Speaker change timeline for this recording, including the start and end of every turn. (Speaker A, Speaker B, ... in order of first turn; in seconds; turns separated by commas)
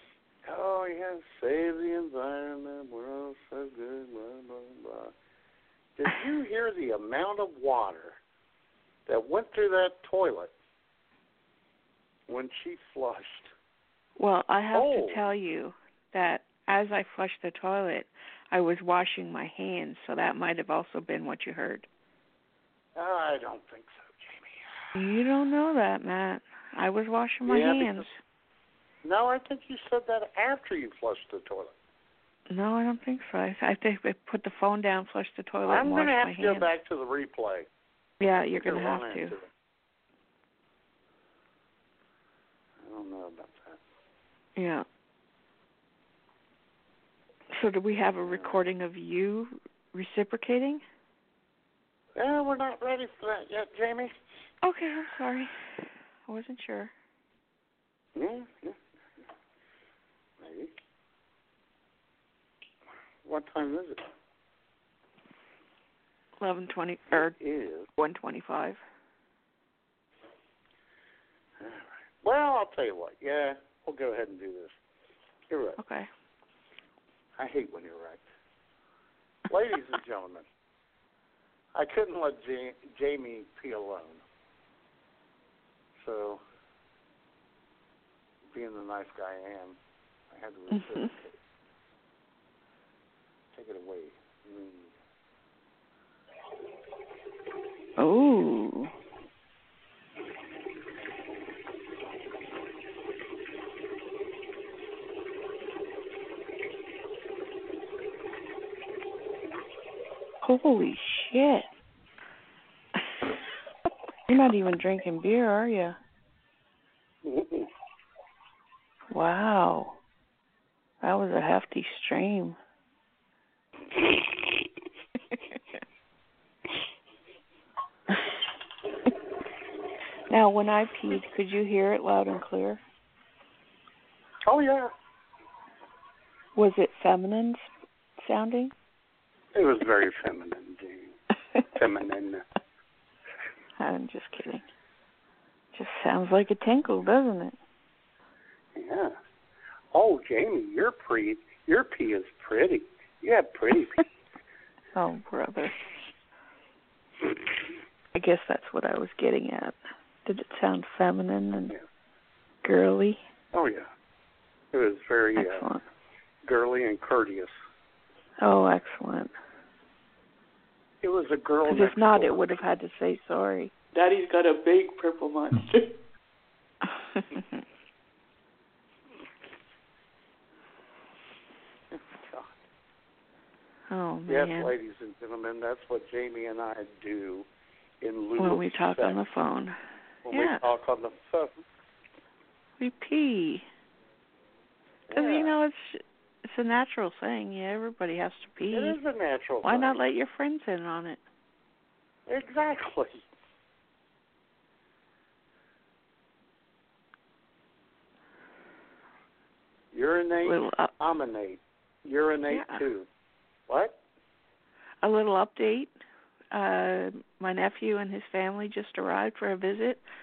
Speaker A: 0.5-5.1, Speaker A: 6.0-8.2, Speaker A: 9.1-10.5, Speaker A: 12.3-13.5, Speaker B: 14.2-21.9, Speaker A: 14.7-15.3, Speaker A: 22.9-24.7, Speaker B: 24.9-28.1, Speaker A: 27.4-28.1, Speaker A: 29.0-31.7, Speaker B: 32.5-36.7, Speaker A: 35.6-37.7, Speaker B: 38.2-39.4, Speaker A: 38.3-39.5, Speaker A: 42.8-43.8, Speaker B: 44.6-44.8, Speaker B: 47.5-50.8, Speaker A: 48.2-48.6, Speaker A: 52.1-54.2, Speaker B: 54.6-55.5, Speaker B: 56.3-56.9, Speaker A: 58.1-58.8, Speaker A: 60.4-60.7, Speaker A: 63.2-64.1, Speaker B: 66.4-67.3, Speaker A: 67.1-67.9, Speaker B: 68.0-68.8, Speaker A: 71.6-74.7, Speaker A: 75.5-75.8, Speaker B: 75.8-76.1, Speaker A: 77.4-78.2, Speaker A: 79.5-80.5, Speaker A: 81.7-84.2, Speaker A: 86.0-86.4, Speaker A: 88.5-89.8, Speaker A: 90.3-91.4, Speaker B: 90.7-91.1, Speaker A: 93.5-94.9, Speaker B: 98.0-98.9, Speaker B: 110.4-111.7, Speaker B: 114.3-116.0, Speaker A: 117.2-117.7, Speaker B: 119.1-120.0, Speaker B: 121.0-122.6, Speaker B: 130.3-132.8, Speaker A: 134.4-134.9, Speaker B: 136.6-137.6, Speaker B: 138.2-138.7, Speaker A: 139.5-141.2, Speaker A: 141.7-142.4, Speaker B: 143.8-144.6, Speaker B: 145.7-147.6, Speaker A: 148.7-149.1, Speaker A: 149.9-154.0, Speaker B: 154.9-155.8, Speaker B: 158.1-161.7, Speaker B: 162.6-163.2, Speaker A: 163.5-163.9, Speaker A: 164.7-165.7, Speaker B: 165.3-165.8, Speaker A: 166.4-167.5, Speaker B: 168.4-169.3, Speaker A: 171.0-172.6, Speaker B: 171.7-173.7, Speaker C: 173.9-175.8, Speaker B: 177.1-177.5, Speaker A: 181.9-182.6, Speaker B: 183.9-184.7, Speaker A: 184.3-187.5, Speaker A: 188.0-189.2, Speaker B: 188.4-189.8, Speaker A: 190.2-191.6, Speaker B: 190.3-190.6, Speaker B: 192.8-193.6, Speaker A: 195.1-195.5, Speaker B: 195.1-199.0, Speaker A: 198.7-200.0, Speaker B: 199.6-201.2, Speaker A: 202.3-203.2, Speaker A: 209.9-213.1, Speaker B: 210.4-210.9, Speaker B: 212.5-212.8, Speaker A: 213.7-214.0, Speaker B: 215.0-215.9, Speaker B: 216.5-220.0